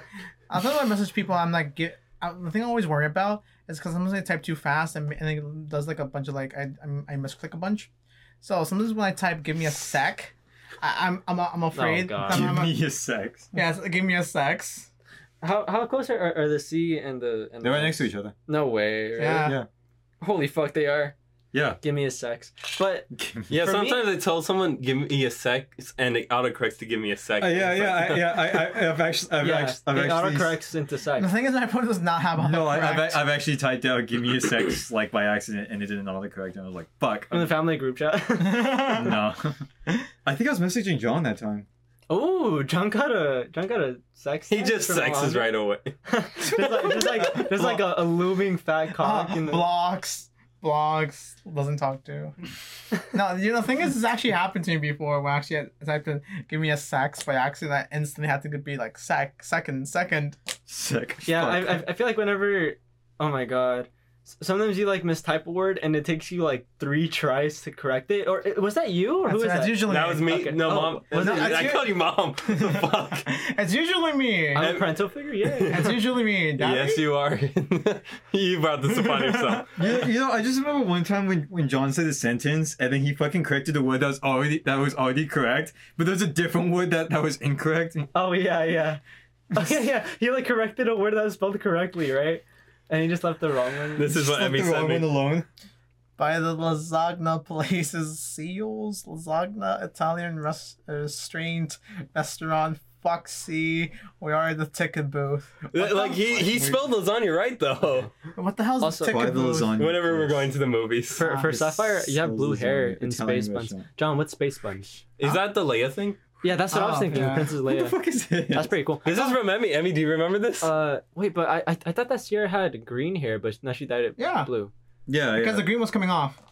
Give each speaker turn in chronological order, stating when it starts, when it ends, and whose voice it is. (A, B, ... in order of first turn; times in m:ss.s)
0:00.5-0:07.9 A
0:08.4-0:12.7 A
0:11.7-0:12.6 B
0:12.3-0:13.5 C
0:13.5-0:14.9 A
0:15.4-0:19.6 B
0:17.6-0:18.3 C
0:19.2-0:19.6 A
0:20.2-0:21.1 B
0:21.5-0:21.8 C
0:21.8-0:24.1 B
0:23.1-0:23.6 C
0:23.5-0:28.8 D
0:27.4-0:30.6 C
0:29.4-0:31.3 B
0:31.2-0:33.2 A
0:32.4-0:37.6 C
0:37.3-0:39.1 B
0:38.4-0:39.2 A
0:38.7-0:39.6 C
0:40.2-0:41.7 C
0:42.1-0:45.5 B
0:44.5-0:45.9 D
0:46.0-0:49.7 B
0:46.4-0:47.8 C
0:49.0-0:52.3 A
0:53.1-1:00.4 A
1:00.7-1:01.8 C
1:01.2-1:11.8 B
1:09.2-1:10.4 A
1:09.8-1:13.3 D
1:11.1-1:14.7 A
1:14.5-1:16.0 B
1:14.6-1:15.9 D
1:15.7-1:17.0 A
1:16.6-1:19.8 D
1:19.0-1:19.6 A
1:19.7-1:28.1 C
1:28.1-1:29.0 B
1:29.5-1:34.1 B
1:34.0-1:35.1 D
1:34.0-1:35.4 C
1:36.2-1:46.8 A
1:45.7-1:48.1 D
1:48.3-1:49.7 A
1:48.8-1:49.2 B
1:49.0-1:50.5 C
1:49.8-1:51.2 D
1:51.2-1:55.0 B
1:51.2-1:51.6 A
1:51.5-1:53.8 C
1:55.2-1:56.2 D
1:56.4-1:58.0 B
1:56.7-1:57.6 A
1:57.6-1:58.7 C
1:58.5-1:59.1 B
1:59.0-2:00.7 D
1:59.1-1:59.4 A
2:00.6-2:04.7 B
2:04.2-2:04.5 A
2:05.1-2:05.7 C
2:05.3-2:06.4 A